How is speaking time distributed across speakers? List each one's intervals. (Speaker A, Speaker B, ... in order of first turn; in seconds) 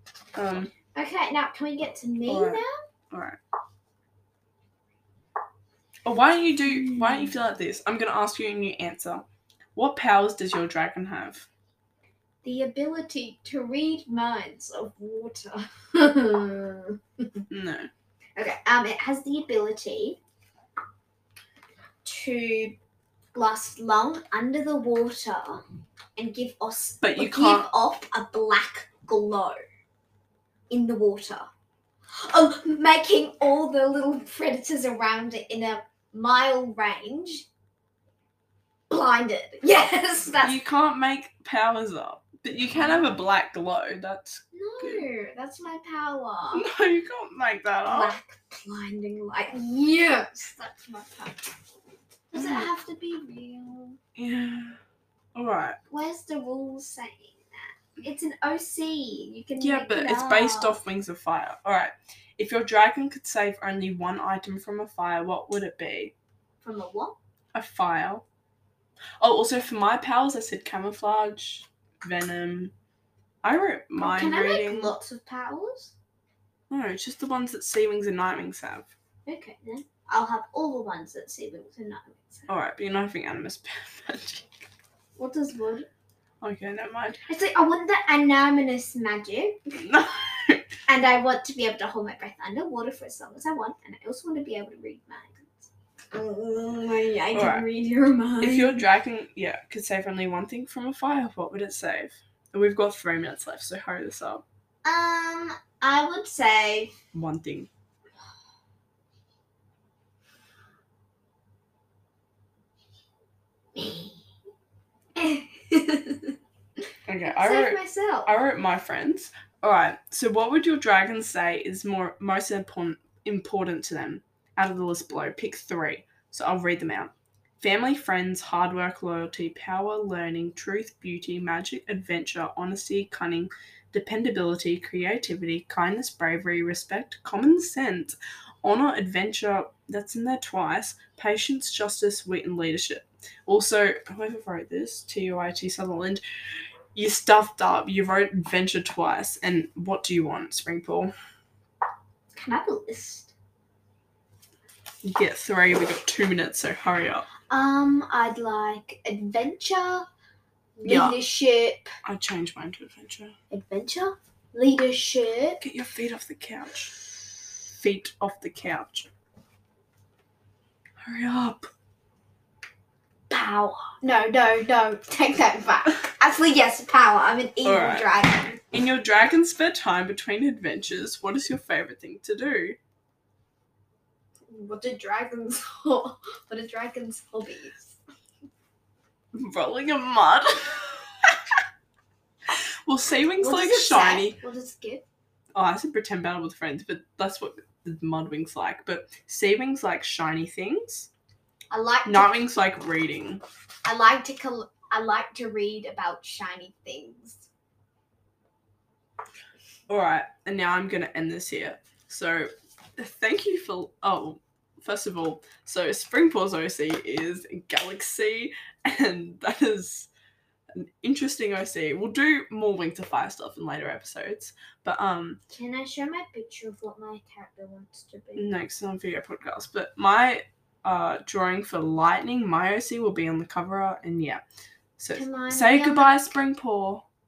Speaker A: 0.3-0.7, 2.3-3.4, 6.0-11.5, 17.5-17.9, 27.0-27.7, 40.4-45.0, 46.5-48.1, 52.3-52.7, 54.2-54.8, 55.4-55.8, 59.6-66.1, 67.5-68.3, 69.2-72.7, 73.4-75.0, 76.7-78.9, 82.5-84.7, 86.4-87.2, 89.8-90.7, 97.3-97.7, 98.4-104.5, 107.1-107.7, 117.1-146.2, 146.9-151.1, 155.0-157.3, 160.8-161.2, 162.0-163.3, 165.6-166.9, 167.7-169.1, 171.0-171.7, 177.6-178.1, 178.7-182.8, 189.3-191.4, 192.5-194.4, 195.5-201.1, 202.1-203.4, 209.9-220.1, 220.7-225.4, 228.4-234.4, 235.0-237.1
Speaker B: 0.9-2.7, 6.7-7.3, 12.4-17.5, 18.4-20.2, 22.1-22.8, 23.3-25.6, 26.2-29.6, 30.7-31.5, 32.1-37.5, 38.9-40.6, 42.8-43.2, 44.5-46.7, 47.9-51.5, 52.3-54.0, 55.9-60.8, 66.6-67.2, 74.0-76.0, 79.3-82.5, 85.2-85.9, 87.3-89.9, 90.9-98.8, 104.8-106.9, 113.8-114.2, 115.2-116.3, 117.3-118.3, 152.3-153.3, 157.5-160.1, 160.8-161.9, 163.5-165.6, 173.3-178.6, 184.5-188.0, 193.4-195.1, 201.7-202.3, 203.8-207.5, 225.5-228.5, 235.1-236.1